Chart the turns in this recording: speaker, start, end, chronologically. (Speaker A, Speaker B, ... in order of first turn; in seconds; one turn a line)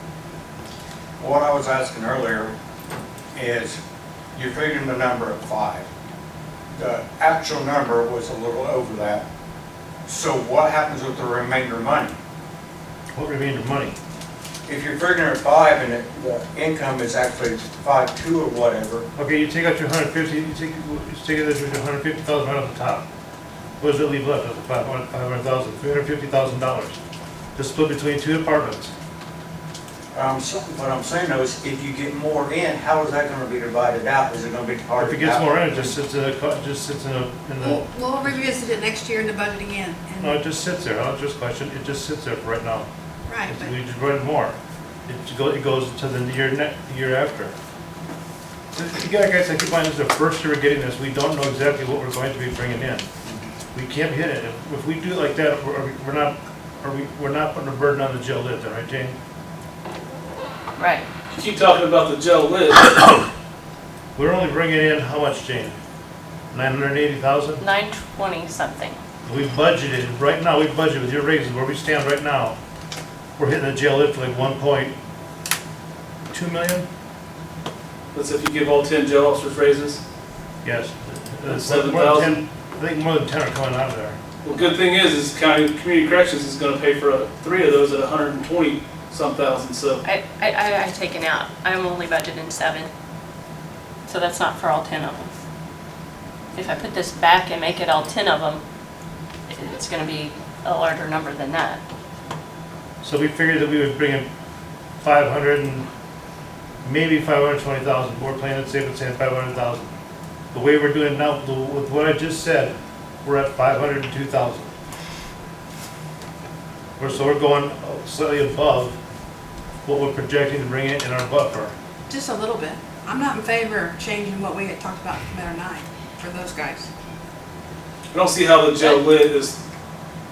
Speaker A: 1.2-2.5
Speaker A: 3.3-3.8
Speaker A: 4.3-5.9
Speaker A: 6.8-9.2
Speaker A: 10.1-12.1
Speaker B: 13.1-13.9
Speaker A: 14.7-19.1
Speaker B: 19.1-23.0
Speaker B: 23.8-27.0
Speaker B: 27.6-28.9
Speaker A: 30.1-35.9
Speaker B: 35.0-38.4
Speaker C: 37.6-40.4
Speaker B: 40.2-42.9
Speaker C: 43.3-43.7
Speaker B: 43.5-47.5
Speaker B: 48.7-53.1
Speaker B: 53.7-59.1
Speaker D: 60.8-61.1
Speaker E: 61.3-63.2
Speaker B: 64.2-65.7
Speaker B: 66.5-67.6
Speaker D: 67.6-69.0
Speaker B: 69.2-72.5
Speaker B: 73.4-74.9
Speaker B: 76.3-76.9
Speaker E: 78.1-80.0
Speaker B: 80.6-84.2
Speaker E: 81.5-82.4
Speaker E: 84.4-90.0
Speaker D: 90.0-92.9
Speaker D: 94.1-95.3
Speaker D: 96.5-98.6
Speaker D: 99.5-101.8
Speaker B: 103.0-104.3
Speaker B: 105.0-105.8
Speaker B: 106.8-109.9
Speaker B: 110.5-112.7
Speaker B: 113.2-114.7
Speaker B: 117.0-119.0
Speaker B: 119.8-121.7
Speaker C: 122.1-126.9
Speaker E: 128.1-129.6
Speaker D: 128.8-129.0